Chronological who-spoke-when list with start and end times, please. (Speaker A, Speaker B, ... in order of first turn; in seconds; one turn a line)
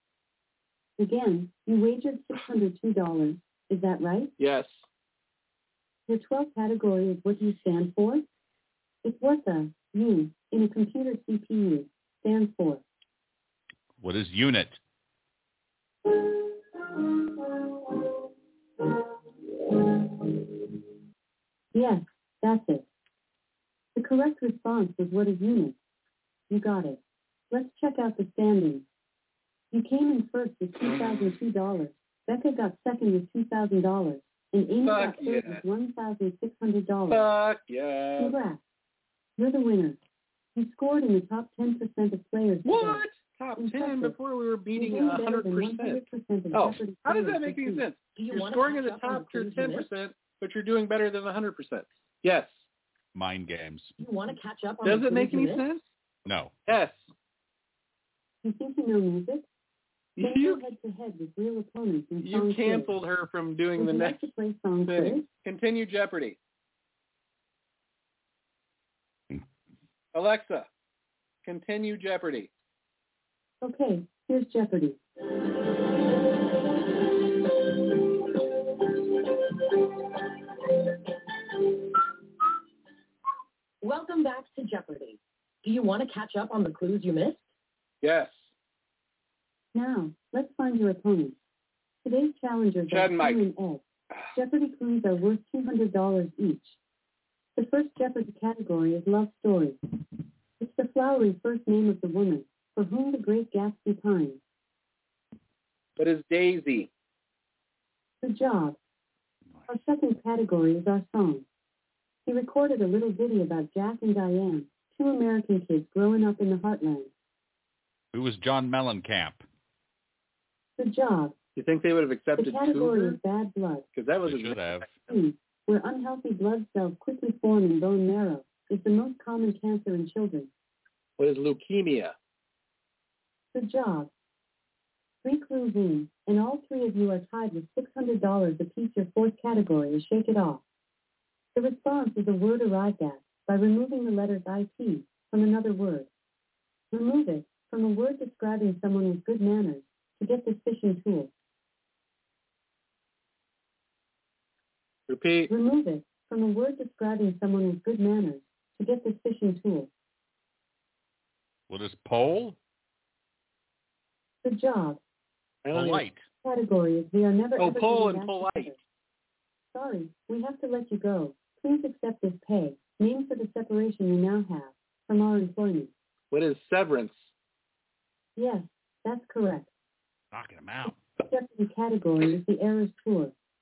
Speaker A: 1.0-4.3
Speaker B: 4.4-4.8
Speaker A: 6.1-8.2
Speaker A: 9.0-12.8
Speaker C: 14.0-14.8
Speaker A: 21.7-22.9
Speaker A: 23.9-25.8
Speaker A: 26.5-27.0
Speaker A: 27.5-28.8
Speaker A: 29.7-37.3
Speaker B: 34.8-35.6
Speaker B: 37.1-38.4
Speaker A: 38.2-38.6
Speaker A: 39.4-40.0
Speaker A: 40.5-43.0
Speaker B: 42.6-52.6
Speaker A: 43.5-44.1
Speaker A: 44.7-47.9
Speaker D: 48.1-49.9
Speaker C: 53.1-53.9
Speaker D: 54.0-55.7
Speaker B: 54.8-55.8
Speaker C: 56.2-56.6
Speaker B: 56.7-57.1
Speaker A: 58.4-59.4
Speaker B: 60.2-60.6
Speaker A: 60.2-62.9
Speaker B: 62.2-64.3
Speaker A: 63.8-65.3
Speaker B: 64.9-66.4
Speaker B: 70.1-70.7
Speaker B: 71.4-72.5
Speaker A: 73.6-75.0
Speaker D: 83.8-87.5
Speaker B: 88.0-88.5
Speaker A: 89.7-91.4
Speaker A: 92.0-96.8
Speaker B: 92.9-93.4
Speaker A: 97.5-99.8
Speaker A: 100.6-104.4
Speaker B: 106.0-106.9
Speaker A: 108.2-108.8
Speaker A: 109.7-111.4
Speaker A: 112.2-117.1
Speaker C: 118.1-119.4
Speaker A: 120.8-121.3
Speaker B: 121.5-123.2
Speaker A: 122.4-123.9
Speaker B: 123.9-124.9
Speaker C: 124.2-125.1
Speaker A: 125.1-130.5
Speaker B: 131.2-132.1
Speaker A: 133.5-134.1
Speaker A: 135.2-140.6
Speaker A: 141.5-146.1
Speaker A: 146.9-151.3
Speaker B: 155.1-155.5
Speaker A: 155.5-159.9
Speaker C: 161.7-162.6
Speaker A: 164.4-165.0
Speaker B: 165.6-166.0
Speaker C: 165.7-166.2
Speaker A: 166.4-168.8
Speaker B: 167.6-168.7
Speaker A: 169.7-175.9
Speaker B: 176.3-177.3
Speaker A: 178.4-179.7
Speaker C: 180.3-181.0
Speaker A: 181.2-183.3